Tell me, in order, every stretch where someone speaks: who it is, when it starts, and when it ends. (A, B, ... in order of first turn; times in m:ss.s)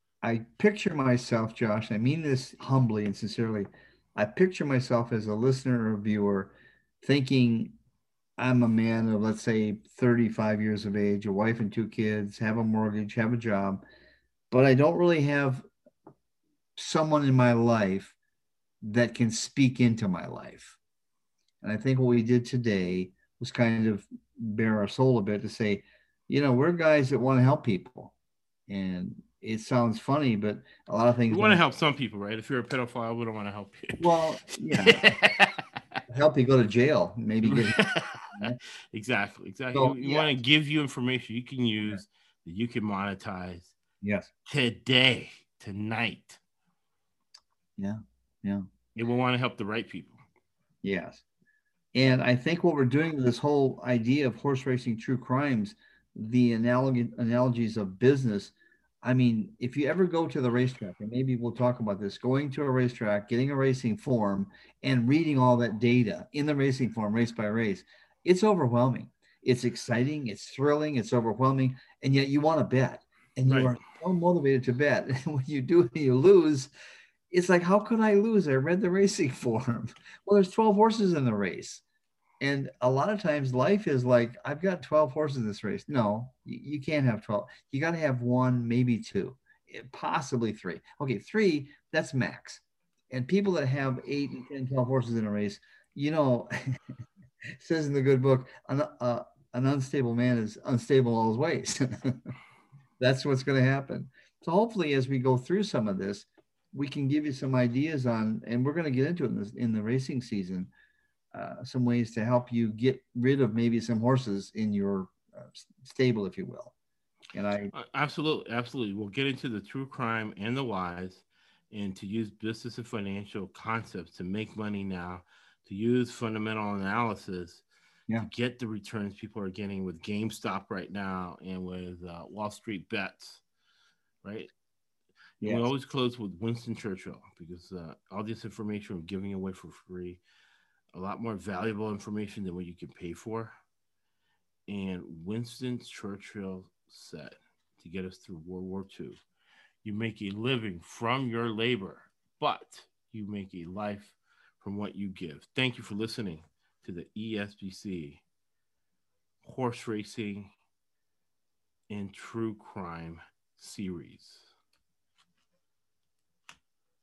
0:00.2-0:07.8 A
0:08.4-0:13.8 A
0:14.5-0:15.6 A
0:16.8-0:18.2 A
0:18.8-0:20.8 A
0:21.6-0:28.1 A
0:28.7-0:31.6 A
0:31.3-0:34.0 B
0:34.0-0:35.1 A
0:34.7-0:36.0 B
0:36.1-0:38.6 A
0:37.4-0:38.4 B
0:38.9-0:43.8 B
0:39.7-0:40.3 A
0:44.0-0:44.3 A
0:44.5-0:46.4 B
0:47.8-0:48.6 A
0:49.0-0:50.2 B
0:50.8-0:51.2 A
0:51.9-1:16.7 A
1:13.5-1:13.8 B
1:17.3-1:21.8 A
1:22.4-1:36.8 A
1:37.5-1:42.3 A
1:43.0-1:50.7 A
1:51.3-1:56.7 A
1:57.3-1:57.7 A
1:57.7-2:07.6 B
2:08.2-2:13.4 B
2:14.2-2:14.5 B
2:15.4-2:20.2 B
2:15.4-2:15.7 A
2:20.9-2:23.6 B
2:24.7-2:29.2 B
2:29.8-2:38.2 B
2:39.4-2:40.5 B
2:41.9-2:44.5 B